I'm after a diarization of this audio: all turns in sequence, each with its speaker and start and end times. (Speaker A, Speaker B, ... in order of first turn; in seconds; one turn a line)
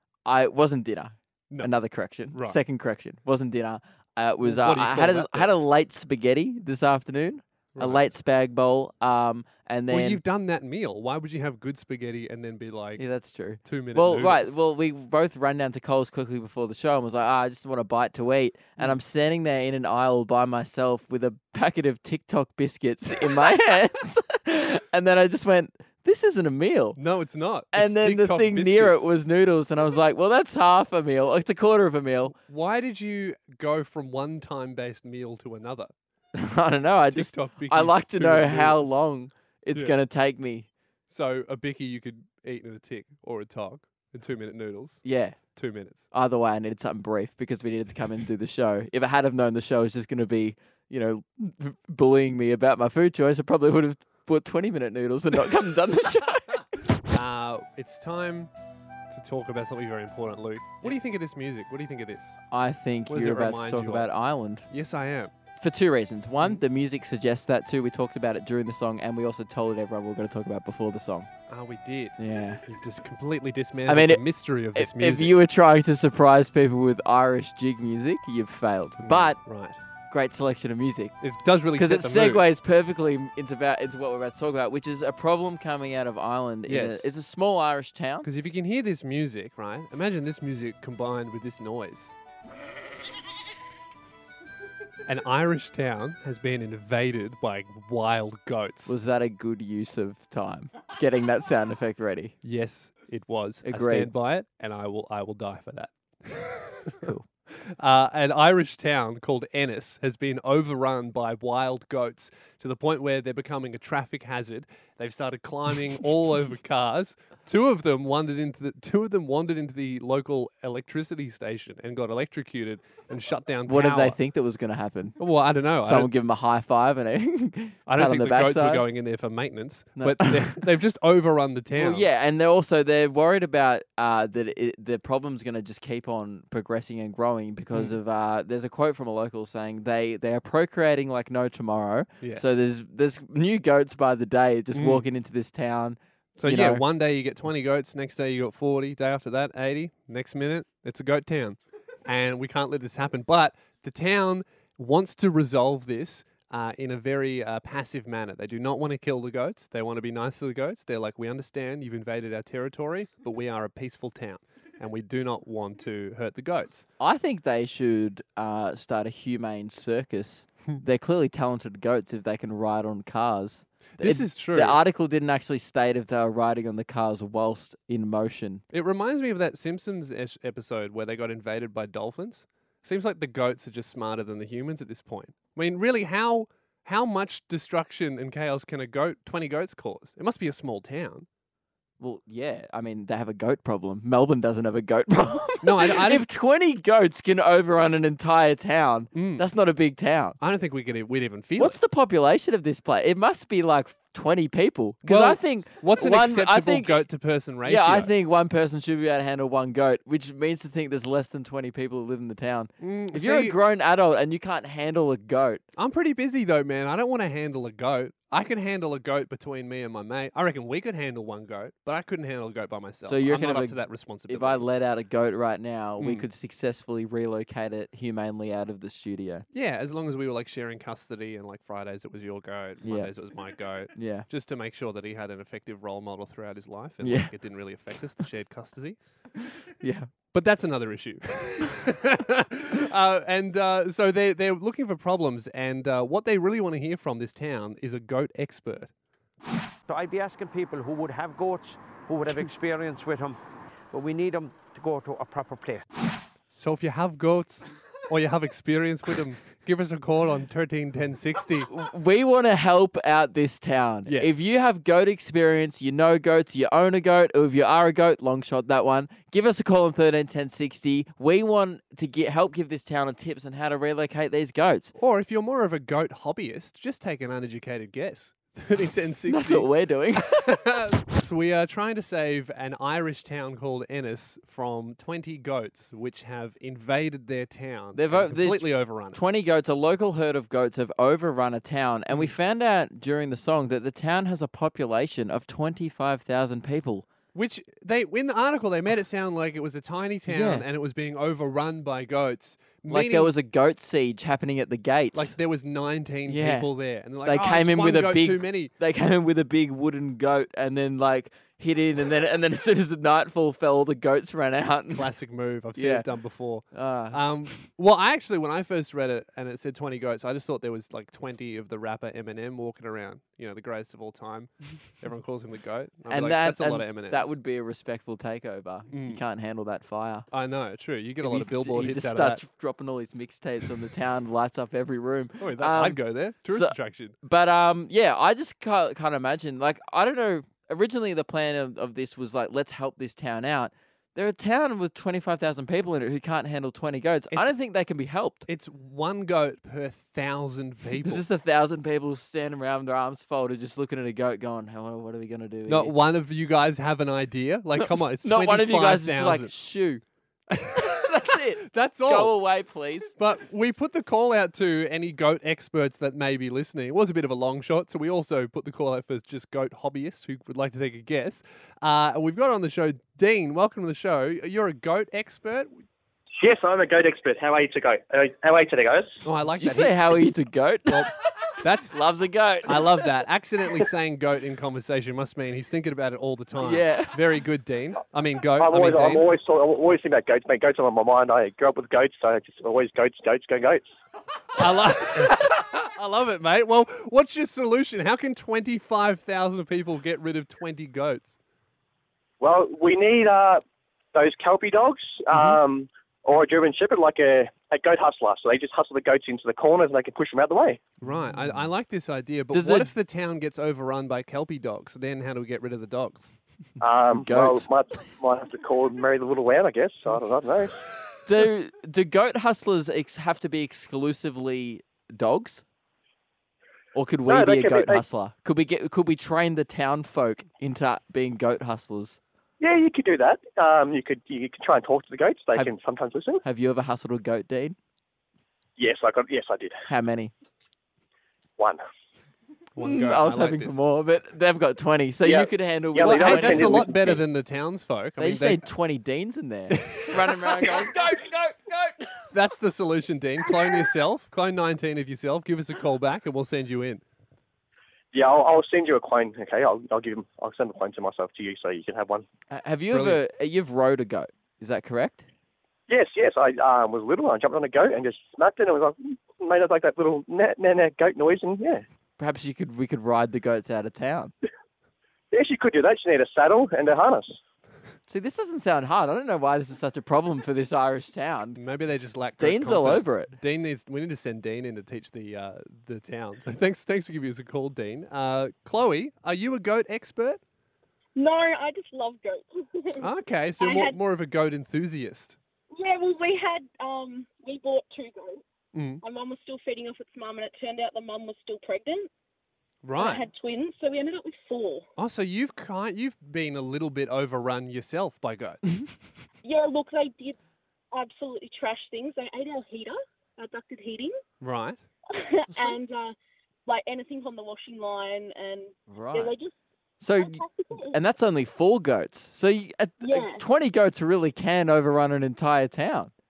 Speaker A: 0.2-10.2
Speaker B: 2.3-2.6
Speaker B: 4.4-5.5
Speaker B: 7.8-8.1
Speaker B: 9.9-13.0
Speaker A: 13.0-27.0
Speaker B: 13.6-14.6
Speaker B: 27.0-29.1
Speaker A: 27.7-32.4
Speaker B: 32.4-35.9
Speaker A: 36.4-40.7
Speaker B: 37.1-39.0
Speaker B: 41.1-45.0
Speaker A: 45.0-45.4
Speaker B: 45.5-46.1
Speaker A: 46.1-56.8
Speaker B: 57.1-58.5
Speaker B: 59.1-62.4
Speaker A: 62.5-64.7
Speaker B: 63.1-64.1
Speaker B: 64.7-65.3
Speaker A: 65.6-71.3
Speaker B: 71.5-75.4
Speaker A: 72.2-72.6
Speaker A: 73.9-79.4
Speaker B: 79.0-79.8
Speaker A: 80.1-81.2
Speaker B: 81.2-82.5
Speaker A: 81.7-88.3
Speaker B: 86.7-87.1
Speaker B: 88.2-92.2
Speaker B: 95.1-99.0
Speaker A: 98.9-102.3
Speaker B: 102.4-124.2
Speaker A: 103.7-104.1
Speaker A: 123.7-125.2
Speaker B: 125.2-126.1
Speaker A: 125.8-128.8
Speaker B: 127.9-132.1
Speaker A: 130.0-130.7
Speaker A: 131.8-146.8
Speaker B: 142.2-142.6
Speaker B: 144.7-145.1
Speaker B: 146.4-166.9
Speaker A: 167.0-178.6
Speaker B: 174.0-174.8
Speaker B: 178.7-191.3
Speaker A: 192.0-200.4
Speaker B: 195.6-196.3
Speaker B: 199.1-199.5
Speaker B: 200.4-201.8
Speaker A: 201.6-207.1
Speaker B: 205.0-208.1
Speaker A: 207.6-215.6
Speaker B: 212.8-213.6
Speaker B: 215.8-224.6
Speaker A: 223.1-229.5
Speaker B: 226.0-226.3
Speaker B: 229.5-239.0
Speaker A: 232.8-233.1
Speaker A: 233.9-234.3
Speaker A: 237.0-237.4
Speaker A: 239.8-240.1
Speaker B: 240.3-248.9
Speaker C: 249.9-253.4
Speaker C: 253.9-255.8
Speaker B: 256.6-261.7
Speaker A: 261.7-274.9
Speaker B: 264.1-264.4
Speaker B: 275.0-289.2
Speaker A: 279.3-280.6
Speaker A: 287.9-297.1
Speaker B: 297.3-303.3
Speaker A: 300.3-300.7
Speaker A: 302.9-305.4
Speaker B: 305.1-308.7
Speaker A: 306.3-306.7
Speaker A: 307.2-315.1
Speaker B: 314.9-327.4
Speaker A: 315.8-316.1
Speaker A: 316.7-317.5
Speaker A: 326.1-330.3
Speaker B: 328.9-329.2
Speaker B: 330.3-332.4
Speaker A: 331.2-348.5
Speaker B: 335.4-337.2
Speaker B: 348.5-351.2
Speaker A: 351.0-356.0
Speaker B: 355.7-359.5
Speaker A: 357.8-360.0
Speaker B: 360.5-362.4
Speaker A: 360.8-363.1
Speaker B: 363.2-375.8
Speaker D: 376.4-379.2
Speaker B: 379.2-380.3
Speaker A: 379.6-381.1
Speaker B: 380.9-382.0
Speaker A: 381.9-383.1
Speaker B: 382.7-389.3
Speaker A: 386.6-387.2
Speaker D: 388.6-393.9
Speaker B: 394.6-401.4
Speaker D: 402.4-410.8
Speaker B: 405.3-405.6
Speaker B: 411.0-416.3
Speaker A: 411.1-411.6
Speaker A: 412.5-412.9
Speaker D: 416.8-420.8
Speaker A: 417.1-417.7
Speaker A: 421.3-425.6
Speaker A: 426.9-432.2
Speaker D: 427.3-428.0
Speaker D: 432.6-436.4
Speaker A: 436.4-437.8
Speaker D: 438.8-439.8
Speaker A: 439.9-440.3
Speaker B: 442.8-443.8
Speaker A: 442.8-447.0
Speaker D: 445.2-447.2
Speaker B: 446.0-448.7
Speaker A: 448.2-452.3
Speaker B: 449.7-450.8
Speaker B: 452.3-457.0
Speaker D: 458.1-462.3
Speaker A: 462.5-465.3
Speaker B: 462.9-463.2
Speaker D: 465.9-471.8
Speaker A: 472.2-474.3
Speaker D: 475.3-477.4
Speaker A: 478.1-481.6
Speaker B: 481.6-490.4
Speaker A: 482.4-483.3
Speaker E: 491.1-493.1
Speaker B: 493.0-495.4
Speaker E: 493.6-494.0
Speaker E: 495.7-498.4
Speaker B: 498.7-499.0
Speaker E: 499.0-502.1
Speaker B: 502.8-503.3
Speaker E: 503.0-504.9
Speaker B: 505.0-508.6
Speaker E: 509.4-510.4
Speaker E: 510.9-514.2
Speaker B: 514.4-514.8
Speaker E: 515.1-519.5
Speaker A: 515.5-515.8
Speaker A: 518.9-519.3
Speaker A: 520.0-526.1
Speaker E: 520.1-521.0
Speaker E: 523.0-523.5